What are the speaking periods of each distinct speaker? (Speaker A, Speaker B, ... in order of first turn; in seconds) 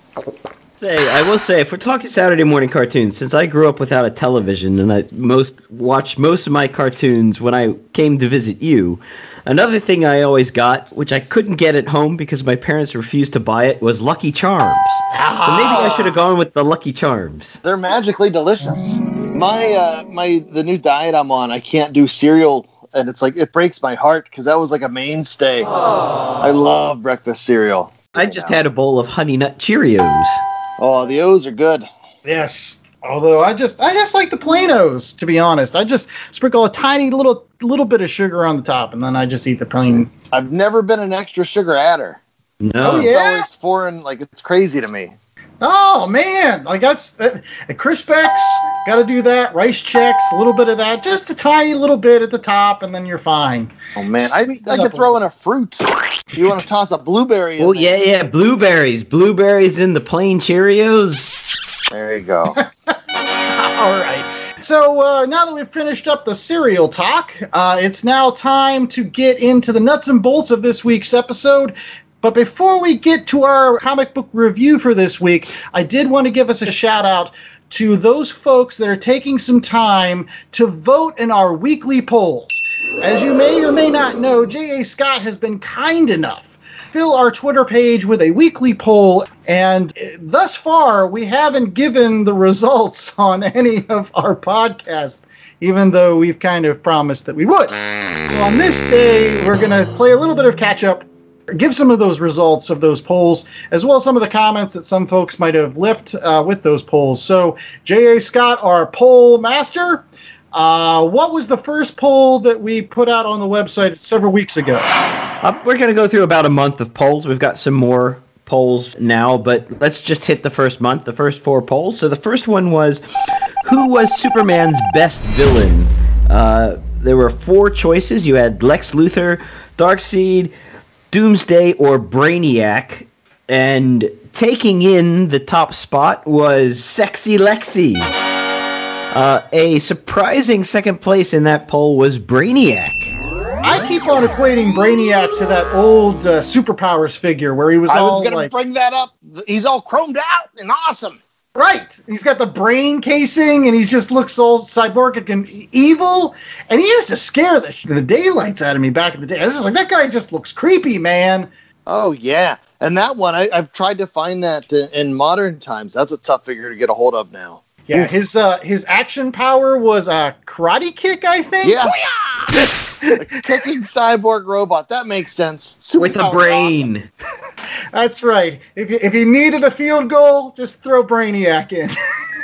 Speaker A: 0.8-17.6, 28.1-30.4, 42.6-43.1, 57.6-61.4, 115.4-123.0, 123.6-130.5, 131.1-138.1, 139.1-143.1, 176.0-177.1
Speaker B: 15.1-16.1, 32.2-40.1, 42.8-43.5, 45.6-55.2, 63.5-114.9, 143.6-148.5, 151.6-161.5, 167.9-172.0, 177.9-181.9
Speaker C: 17.6-25.7, 26.4-28.6, 30.8-31.9, 39.8-42.2, 42.9-45.1, 54.0-57.9, 61.9-62.6, 147.9-151.2, 161.9-168.1, 171.6-172.6, 173.2-176.8